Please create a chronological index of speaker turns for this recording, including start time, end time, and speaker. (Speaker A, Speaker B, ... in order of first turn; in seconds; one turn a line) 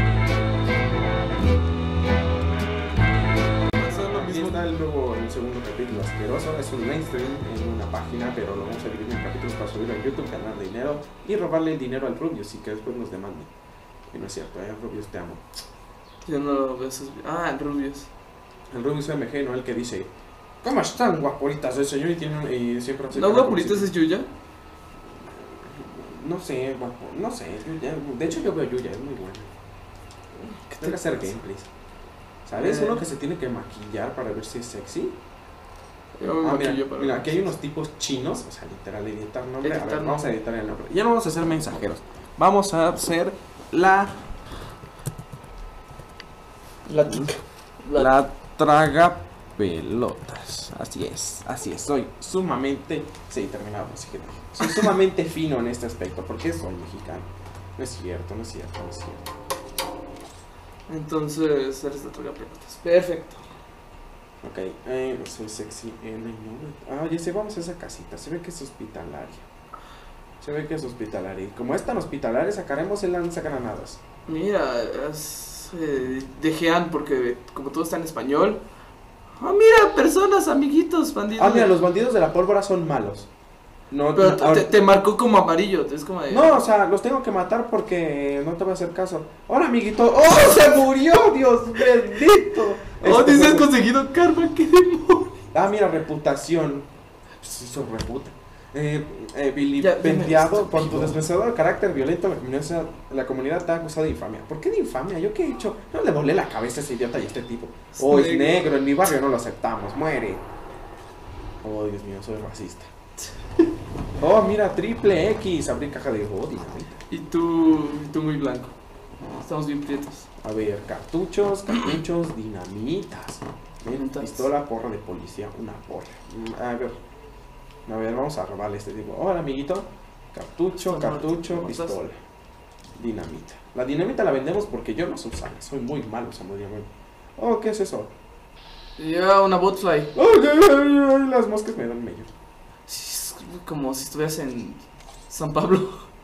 Speaker A: 3.7-4.6
Speaker B: 3.8-13.5
Speaker B: 14.1-15.4
Speaker A: 16.2-18.1
Speaker B: 18.7-20.1
Speaker B: 20.6-23.9
Speaker A: 23.1-24.3
Speaker B: 25.2-29.5
Speaker A: 30.6-31.3
Speaker B: 30.8-31.7
Speaker B: 32.5-35.2
Speaker A: 32.6-33.0
Speaker A: 36.1-37.4
Speaker B: 36.4-44.2
Speaker A: 39.6-40.3
Speaker A: 46.9-48.1
Speaker B: 47.0-47.3
Speaker B: 48.0-59.3
Speaker A: 60.9-63.5
Speaker B: 64.4-69.5
Speaker B: 70.4-74.0
Speaker A: 74.3-78.6
Speaker A: 79.4-81.7
Speaker B: 81.4-83.3
Speaker B: 83.9-84.7
Speaker A: 84.1-86.6
Speaker B: 86.3-93.7
Speaker A: 93.0-95.5
Speaker B: 95.5-96.9
Speaker B: 97.4-110.4
Speaker A: 99.8-101.2
Speaker A: 107.9-108.8
Speaker B: 111.6-112.9
Speaker B: 114.2-117.0
Speaker A: 117.1-118.8
Speaker A: 119.4-120.3
Speaker B: 120.4-127.0
Speaker A: 123.9-124.5
Speaker B: 127.9-132.2
Speaker A: 130.8-132.0
Speaker B: 133.0-138.1
Speaker A: 139.0-140.1
Speaker B: 140.1-142.3
Speaker A: 142.9-146.1